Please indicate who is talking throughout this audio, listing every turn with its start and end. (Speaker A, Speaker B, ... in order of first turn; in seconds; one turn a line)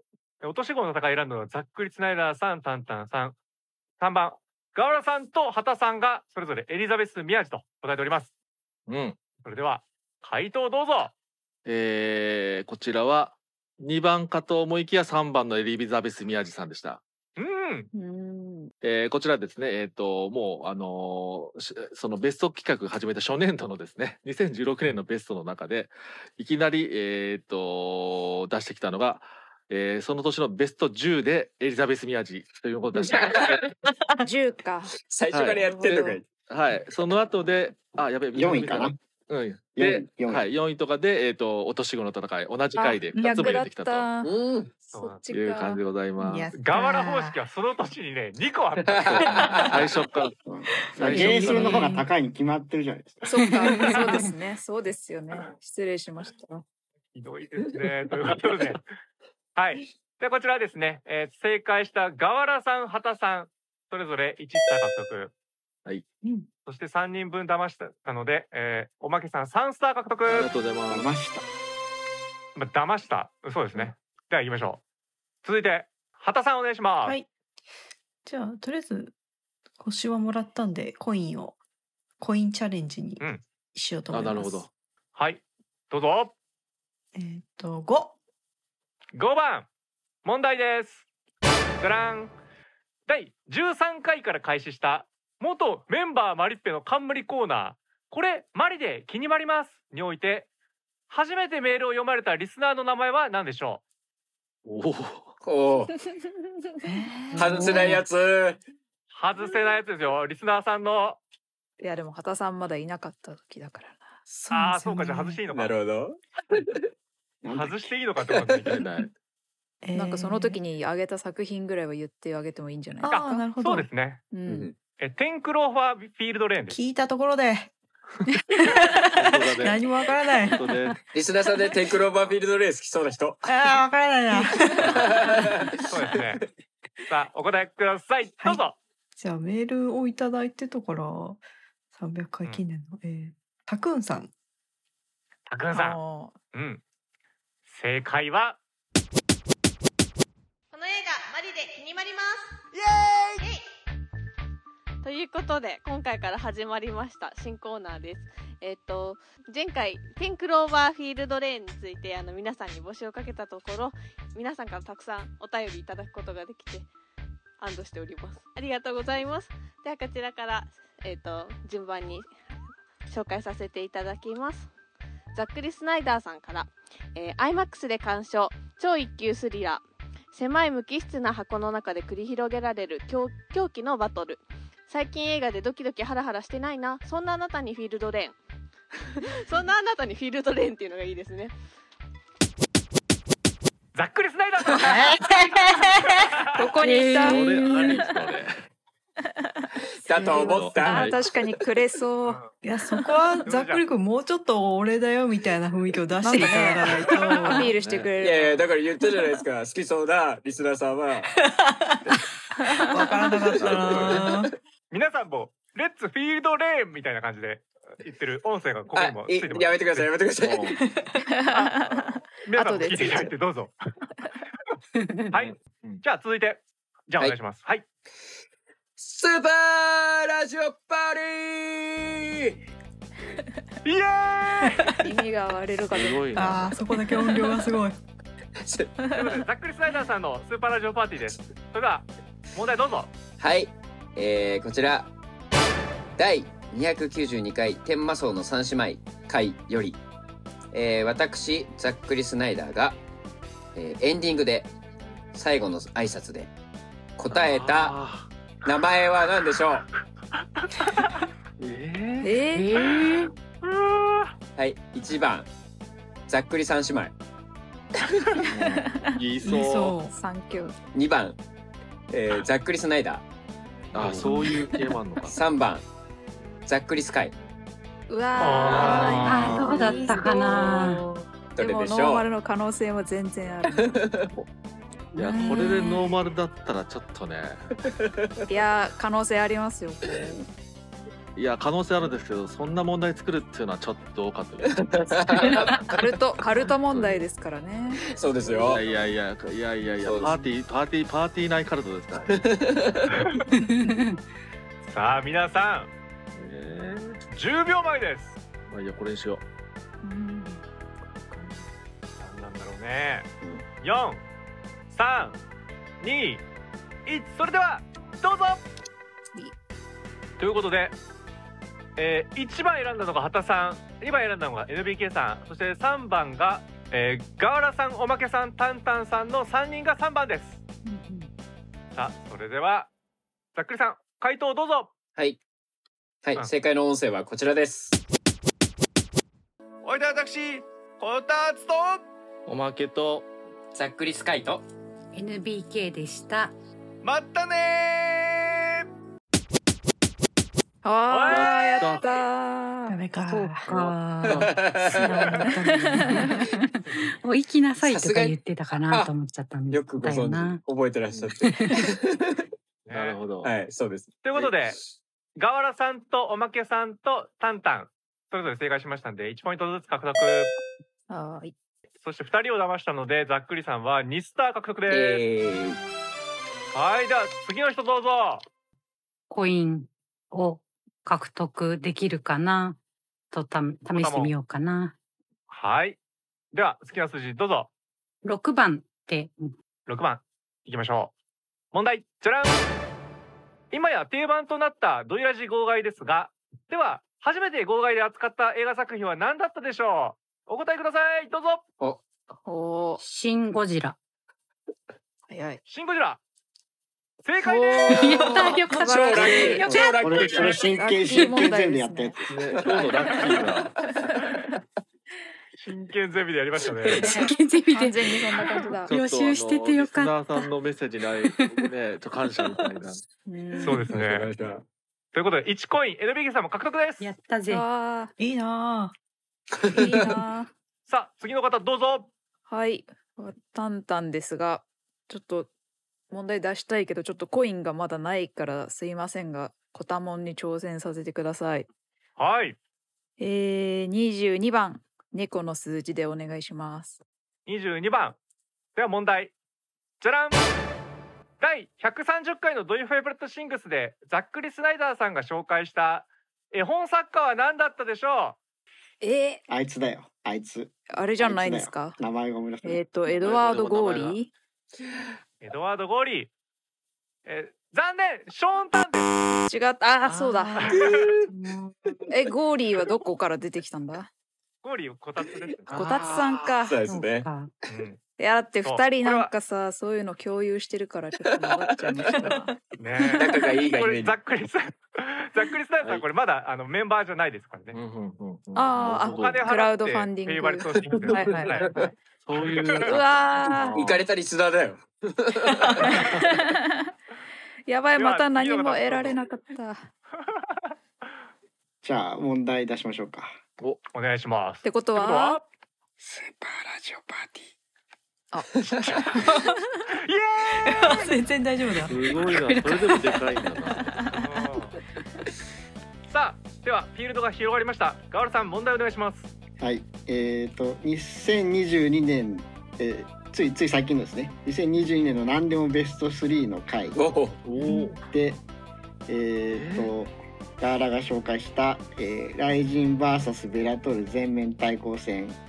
Speaker A: 0.4-3.4
Speaker A: 4.0-8.3
Speaker B: 8.9-9.2
Speaker A: 9.4-11.1
Speaker B: 11.7-17.0
Speaker A: 17.4-17.9
Speaker C: 17.9-18.7
Speaker B: 18.8-33.6
Speaker D: 33.2-33.5
Speaker C: 34.2-34.9
Speaker D: 35.0-36.2
Speaker B: 35.3-44.0
Speaker C: 35.8-36.1
Speaker E: 38.3-38.9
Speaker E: 39.7-40.5
Speaker C: 42.8-45.8
Speaker F: 43.1-43.6
Speaker D: 44.2-44.7
Speaker A: 44.9-45.2
Speaker B: 45.3-46.5
Speaker F: 46.1-47.4
Speaker A: 46.5-49.6
Speaker D: 48.9-49.7
Speaker B: 49.6-50.3
Speaker E: 50.4-53.3
Speaker F: 50.8-52.0
Speaker B: 51.0-51.9
Speaker G: 51.5-51.8
Speaker C: 53.2-56.6
Speaker G: 53.5-54.3
Speaker F: 53.7-54.0
Speaker A: 57.1-58.8
Speaker A: 59.5-65.3
Speaker A: 66.7-70.5
Speaker B: 70.3-71.1
Speaker E: 70.9-71.4
Speaker A: 72.5-74.8
Speaker A: 75.4-77.2
Speaker F: 78.2-79.1
Speaker F: 79.8-81.6
Speaker F: 82.2-84.7
Speaker B: 84.1-84.7
Speaker A: 85.2-86.3
Speaker F: 87.1-88.2
Speaker A: 89.1-89.7
Speaker A: 90.2-91.0
Speaker A: 91.8-92.3
Speaker A: 93.1-100.5
Speaker A: 101.1-103.8
Speaker B: 104.6-105.3
Speaker D: 105.4-105.9
Speaker F: 106.8-108.0
Speaker D: 107.3-108.6
Speaker C: 107.4-108.0
Speaker A: 109.1-111.2
Speaker C: 111.8-114.2
Speaker F: 114.3-115.4
Speaker A: 114.5-115.8
Speaker D: 115.5-116.8
Speaker E: 117.4-117.7
Speaker A: 117.5-118.8
Speaker B: 118.7-119.1
Speaker F: 119.8-120.6
Speaker C: 119.9-123.1
Speaker F: 123.0-123.9
Speaker A: 123.0-124.2
Speaker C: 124.3-124.7
Speaker D: 124.5-124.7
Speaker A: 125.0-126.8
Speaker F: 126.7-127.7
Speaker F: 128.5-130.7
Speaker B: 129.1-129.8
Speaker B: 130.4-131.0
Speaker D: 131.1-133.4
Speaker F: 133.4-135.0
Speaker B: 134.9-135.2
Speaker D: 134.9-135.7
Speaker A: 135.9-136.4
Speaker A: 137.1-138.8
Speaker F: 139.2-144.3
Speaker A: 145.5-146.0
Speaker C: 145.7-146.3
Speaker A: 146.5-146.8
Speaker A: 147.7-148.6
Speaker H: 150.7-152.5
Speaker I: 152.7-153.4
Speaker H: 155.0-166.9
Speaker H: 167.6-172.3
Speaker H: 173.1-174.7
Speaker H: 175.3-188.3
Speaker H: 189.3-191.5
Speaker A: 193.9-195.0
Speaker F: 194.8-196.1
Speaker A: 196.2-196.5
Speaker C: 196.5-198.2
Speaker G: 196.8-198.0
Speaker B: 197.2-198.6
Speaker C: 199.4-202.5
Speaker D: 200.0-201.5
Speaker B: 200.3-201.2
Speaker A: 202.2-202.5
Speaker F: 202.6-207.7
Speaker A: 203.4-203.8
Speaker C: 206.2-209.2
Speaker B: 207.7-208.1
Speaker D: 208.2-211.3
Speaker F: 211.4-212.1
Speaker C: 212.7-213.3
Speaker F: 212.8-214.5
Speaker B: 213.6-214.4
Speaker A: 213.7-214.1
Speaker A: 214.9-220.1
Speaker D: 218.9-220.7
Speaker B: 220.4-220.8
Speaker F: 220.8-221.2
Speaker C: 221.3-223.3
Speaker A: 221.5-223.7
Speaker A: 225.3-227.8
Speaker B: 225.3-226.0
Speaker D: 229.0-232.6
Speaker A: 233.8-234.8
Speaker C: 235.0-237.5
Speaker B: 235.9-236.7
Speaker F: 236.3-238.0
Speaker D: 238.6-238.9
Speaker A: 239.1-243.1
Speaker D: 243.4-245.1
Speaker D: 246.2-250.0
Speaker D: 250.7-253.0
Speaker D: 253.7-254.7
Speaker D: 255.3-256.5
Speaker D: 257.2-257.9
Speaker B: 257.3-258.3
Speaker D: 258.6-259.9
Speaker B: 261.6-262.3
Speaker C: 262.2-262.9
Speaker G: 262.5-263.3
Speaker A: 263.6-264.3
Speaker D: 264.6-265.5
Speaker D: 266.3-267.1
Speaker E: 268.5-268.9
Speaker C: 268.5-269.1
Speaker B: 269.1-270.0
Speaker F: 269.4-270.1
Speaker C: 270.1-270.8
Speaker D: 270.9-271.4
Speaker D: 272.1-273.2
Speaker B: 273.9-275.4
Speaker D: 274.0-274.3
Speaker C: 274.2-274.8
Speaker D: 275.3-275.8
Speaker D: 276.6-277.3
Speaker C: 278.1-284.2
Speaker A: 278.4-279.6
Speaker B: 278.7-279.7
Speaker G: 278.9-281.0
Speaker D: 281.6-282.3
Speaker D: 283.8-284.3
Speaker B: 285.1-287.7
Speaker C: 285.1-286.1
Speaker C: 288.5-290.4
Speaker B: 291.4-295.8
Speaker D: 294.7-295.9
Speaker C: 295.8-298.1
Speaker B: 296.5-297.2
Speaker D: 298.1-298.8
Speaker B: 298.5-302.4
Speaker D: 300.0-300.3
Speaker D: 302.3-303.1
Speaker G: 303.6-304.1
Speaker A: 304.8-305.9
Speaker B: 306.3-307.2
Speaker A: 307.3-308.4
Speaker B: 308.7-309.4
Speaker C: 310.0-310.6
Speaker C: 311.3-311.7
Speaker A: 312.2-313.3
Speaker A: 313.8-314.2
Speaker A: 314.9-315.4
Speaker A: 316.0-316.4
Speaker A: 317.1-318.6
Speaker A: 320.4-320.9
Speaker A: 321.9-330.6
Speaker C: 330.8-331.3
Speaker A: 331.9-332.9
Speaker A: 333.5-334.9
Speaker D: 336.2-338.0
Speaker I: 339.8-342.0
Speaker B: 342.5-343.2
Speaker D: 343.7-344.6
Speaker G: 345.1-346.5
Speaker I: 347.0-348.8
Speaker C: 350.8-353.0
Speaker A: 351.1-351.9
Speaker B: 351.2-352.0
Speaker F: 352.9-353.7
Speaker G: 353.2-360.6
Speaker B: 353.7-354.6
Speaker D: 354.2-355.2
Speaker F: 354.9-356.3
Speaker C: 355.4-356.5
Speaker D: 357.8-359.1
Speaker D: 359.7-362.4
Speaker G: 361.4-361.8
Speaker A: 362.9-363.2
Speaker B: 362.9-363.5
Speaker D: 363.4-364.5
Speaker A: 364.2-364.8
Speaker A: 365.4-370.5
Speaker C: 371.1-371.5
Speaker A: 372.0-375.2
Speaker D: 374.9-375.8
Speaker A: 376.7-378.4
Speaker G: 379.3-382.8
Speaker G: 383.3-384.9
Speaker A: 383.9-384.3
Speaker A: 385.5-386.0
Speaker A: 386.5-387.7
Speaker G: 388.2-389.5
Speaker A: 389.9-391.1
Speaker A: 391.7-392.6
Speaker A: 393.7-401.6
Speaker C: 402.4-403.0
Speaker G: 403.0-404.0
Speaker C: 405.3-405.6
Speaker A: 405.7-406.2
Speaker A: 407.2-408.3
Speaker C: 407.4-409.8
Speaker G: 407.9-410.2
Speaker D: 408.9-410.7
Speaker E: 409.6-412.2
Speaker C: 410.4-412.2
Speaker B: 412.2-413.8
Speaker C: 412.7-413.6
Speaker A: 415.6-417.1
Speaker G: 416.9-420.5
Speaker C: 417.0-418.9
Speaker B: 418.9-423.0
Speaker G: 421.2-421.7
Speaker C: 423.2-423.9
Speaker A: 423.6-424.3
Speaker D: 423.9-424.6
Speaker A: 425.1-427.1
Speaker G: 427.0-427.6
Speaker C: 427.5-428.1
Speaker F: 428.2-428.9
Speaker D: 429.6-430.1
Speaker C: 429.7-430.5
Speaker A: 430.9-432.1
Speaker C: 432.5-435.5
Speaker C: 436.1-441.7
Speaker A: 442.2-442.6
Speaker C: 443.2-447.0
Speaker A: 447.4-448.2
Speaker A: 448.8-449.3
Speaker A: 450.0-450.4
Speaker A: 451.4-458.4
Speaker C: 459.0-459.4
Speaker E: 459.5-462.8
Speaker C: 460.9-462.0
Speaker C: 462.6-464.3
Speaker B: 463.1-464.2
Speaker A: 465.4-466.3
Speaker A: 467.2-469.1
Speaker C: 469.5-470.8
Speaker G: 470.1-470.7
Speaker A: 470.6-471.0
Speaker G: 471.3-471.6
Speaker C: 472.1-474.1
Speaker A: 474.6-475.7
Speaker B: 475.7-476.5
Speaker C: 475.7-476.8
Speaker D: 476.6-477.3
Speaker G: 476.9-477.5
Speaker A: 477.7-478.0
Speaker C: 478.2-482.5
Speaker A: 478.6-479.3
Speaker D: 481.3-481.7
Speaker F: 482.1-482.5
Speaker A: 482.8-487.8
Speaker D: 483.1-484.1
Speaker B: 487.7-489.5
Speaker C: 488.5-491.9
Speaker A: 489.0-492.9
Speaker B: 490.9-494.0
Speaker C: 492.8-493.8
Speaker D: 493.7-495.8
Speaker B: 495.6-496.2
Speaker C: 495.8-496.9
Speaker C: 497.7-499.9
Speaker A: 497.9-499.2
Speaker E: 501.8-503.4
Speaker A: 503.9-505.4
Speaker C: 504.6-505.4
Speaker E: 506.0-507.4
Speaker C: 508.3-509.6
Speaker A: 509.9-511.0
Speaker F: 510.6-512.1
Speaker B: 511.9-513.9
Speaker G: 512.3-513.4
Speaker A: 514.1-514.8
Speaker A: 516.1-519.3
Speaker E: 519.6-527.0
Speaker D: 526.9-527.4
Speaker B: 527.4-528.0
Speaker F: 527.6-528.0
Speaker E: 528.0-528.4
Speaker E: 529.1-535.4
Speaker B: 529.5-529.9